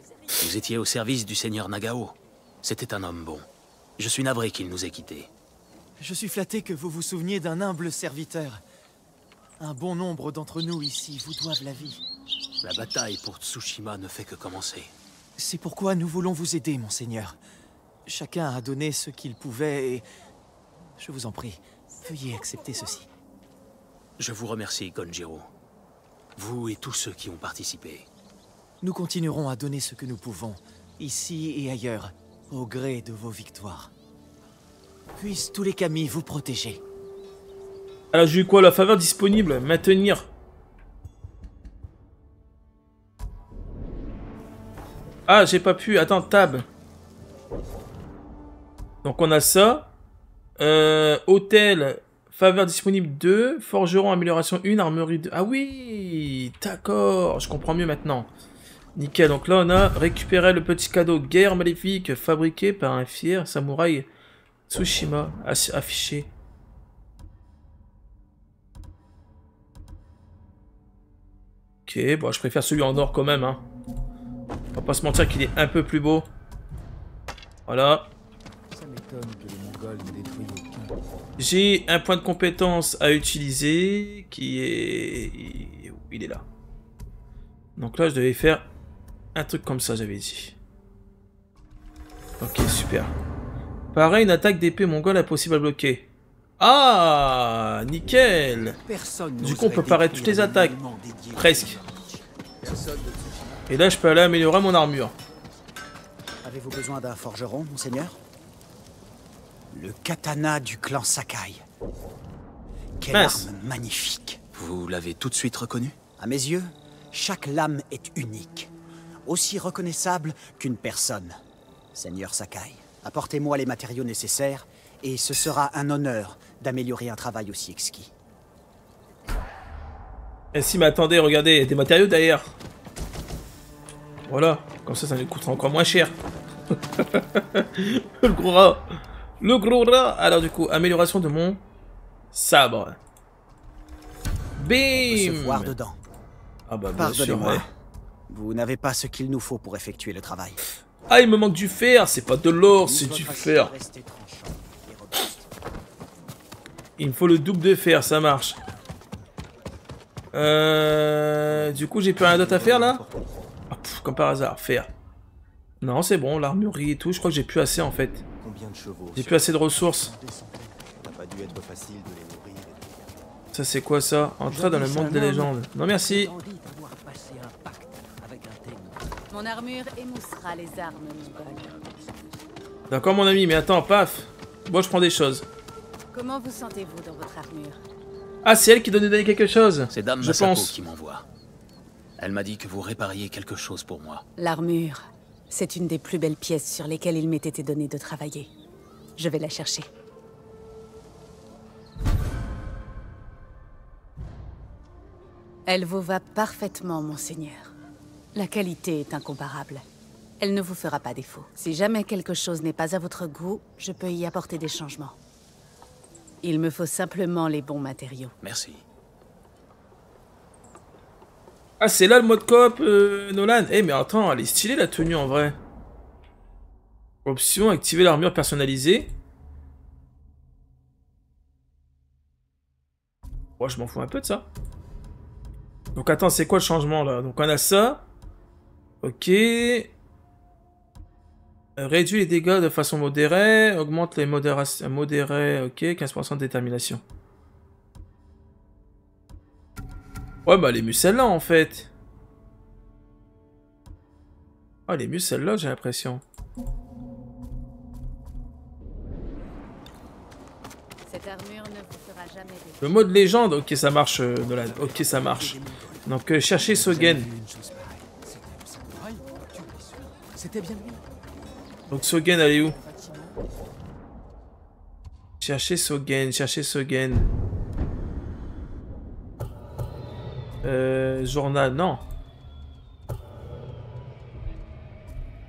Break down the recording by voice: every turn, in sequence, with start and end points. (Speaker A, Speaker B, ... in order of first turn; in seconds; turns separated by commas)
Speaker A: 0.3-3.5, Speaker A: 4.0-5.3, Speaker B: 6.0-8.6, Speaker B: 9.6-12.0, Speaker A: 12.6-14.9, Speaker B: 15.4-17.4, Speaker B: 18.1-20.1, Speaker B: 21.0-23.1, Speaker A: 24.2-25.5, Speaker A: 26.4-28.1, Speaker B: 28.8-33.9, Speaker B: 35.2-36.8, Speaker C: 38.1-40.3, Speaker C: 45.3-46.7, Speaker C: 49.0-49.9, Speaker C: 50.6-58.3, Speaker C: 59.0-64.1, Speaker C: 64.7-66.3, Speaker C: 71.9-73.6, Speaker C: 74.8-76.3, Speaker C: 77.7-78.1, Speaker B: 78.7-81.0, Speaker C: 81.4-86.4, Speaker C: 87.8-88.7, Speaker C: 89.3-90.6, Speaker C: 92.4-93.1, Speaker C: 93.9-96.1, Speaker C: 96.6-98.8, Speaker D: 98.8-103.4, Speaker C: 99.4-100.8, Speaker C: 101.4-101.8, Speaker C: 103.7-105.1, Speaker D: 106.4-108.2, Speaker D: 109.7-111.6, Speaker D: 113.0-114.4, Speaker C: 113.1-113.5, Speaker A: 114.5-116.0, Speaker D: 116.2-118.7, Speaker D: 119.3-121.4, Speaker D: 121.9-128.1, Speaker C: 130.5-132.6, Speaker C: 134.3-136.1, Speaker C: 137.0-141.6, Speaker C: 142.3-143.0, Speaker C: 144.6-145.7, Speaker D: 145.1-146.0, Speaker C: 146.7-147.6, Speaker D: 147.0-147.7, Speaker D: 148.3-150.6, Speaker C: 151.1-153.7, Speaker D: 152.8-155.5, Speaker C: 157.0-158.6, Speaker C: 160.3-163.0, Speaker D: 162.5-162.9, Speaker C: 163.7-164.9, Speaker C: 165.8-168.2, Speaker B: 168.4-170.7, Speaker C: 169.1-170.1, Speaker D: 171.0-173.0, Speaker C: 173.5-176.3, Speaker D: 176.2-176.8, Speaker B: 177.0-177.7, Speaker D: 178.2-178.8, Speaker E: 179.3-181.7, Speaker C: 182.9-185.4, Speaker E: 186.1-187.8, Speaker C: 188.4-190.7, Speaker A: 189.9-191.3, Speaker A: 192.2-194.2, Speaker E: 194.4-198.5, Speaker E: 199.2-199.9, Speaker E: 205.7-207.7, Speaker E: 208.3-209.8, Speaker E: 210.4-215.2, Speaker E: 216.4-218.3, Speaker A: 218.4-218.8, Speaker C: 221.8-225.6, Speaker C: 227.3-229.1, Speaker C: 233.6-234.4, Speaker C: 235.9-238.0, Speaker C: 239.0-239.9, Speaker C: 241.8-247.0, Speaker C: 250.4-251.9, Speaker C: 254.9-256.2, Speaker E: 261.1-262.8, Speaker C: 262.8-267.3, Speaker D: 264.8-266.0, Speaker B: 265.0-265.5, Speaker B: 266.7-269.0, Speaker B: 269.6-270.4, Speaker C: 271.9-272.8, Speaker B: 272.8-273.3, Speaker C: 275.4-277.3, Speaker C: 280.6-282.0